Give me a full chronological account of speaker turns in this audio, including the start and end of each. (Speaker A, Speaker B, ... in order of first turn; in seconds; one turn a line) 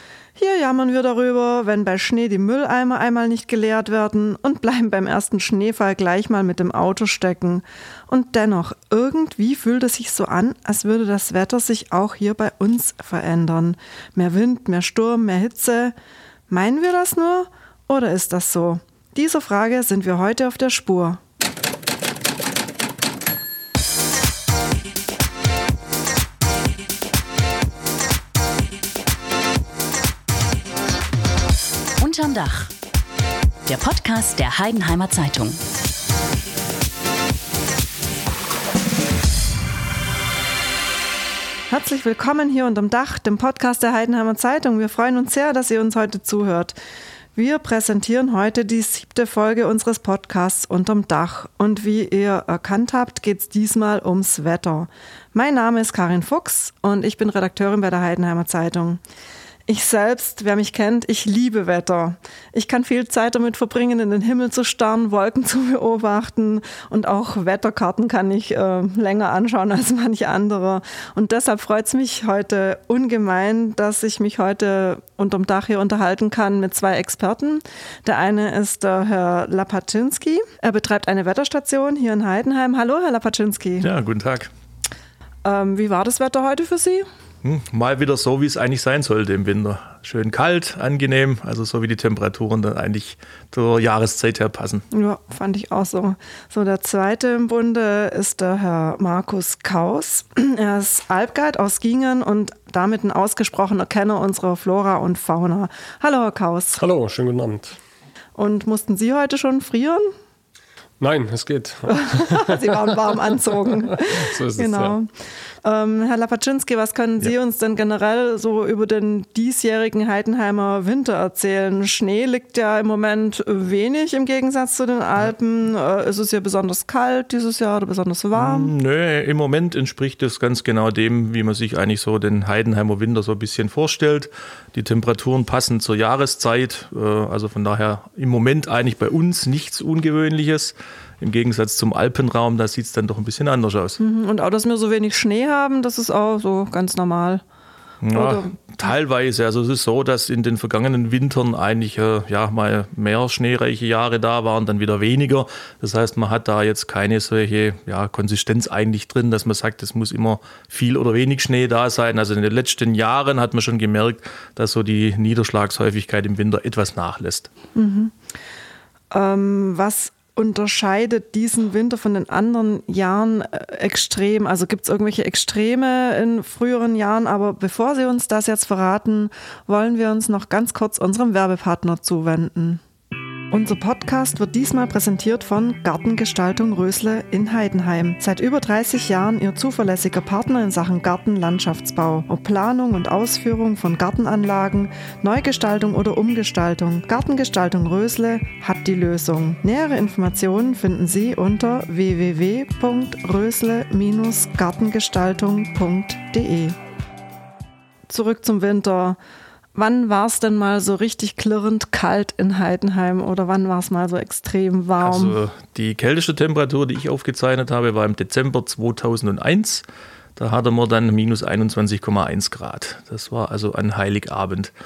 Speaker A: 0.4-15.9
Speaker A: 16.5-21.2
Speaker B: 32.0-32.7
Speaker B: 33.7-35.6
Speaker A: 41.7-46.8
Speaker A: 47.4-59.0
Speaker A: 59.7-83.9
Speaker C: 83.8-84.5
Speaker A: 85.5-87.1
Speaker C: 87.4-94.8
Speaker A: 94.9-106.8
Speaker D: 106.8-107.8
Speaker A: 108.4-110.1
Speaker D: 111.0-112.9
Speaker A: 111.9-115.1
Speaker D: 113.9-115.0
Speaker A: 115.6-128.7
Speaker C: 128.3-144.0
Speaker A: 144.0-147.4
Speaker C: 148.0-167.5
Speaker A: 148.1-148.9
Speaker A: 167.8-168.2
Speaker A: 169.1-182.8
Speaker A: 183.5-206.8
Speaker A: 208.1-209.2
Speaker A: 209.8-215.4
Speaker C: 215.0-219.8
Speaker C: 220.4-224.7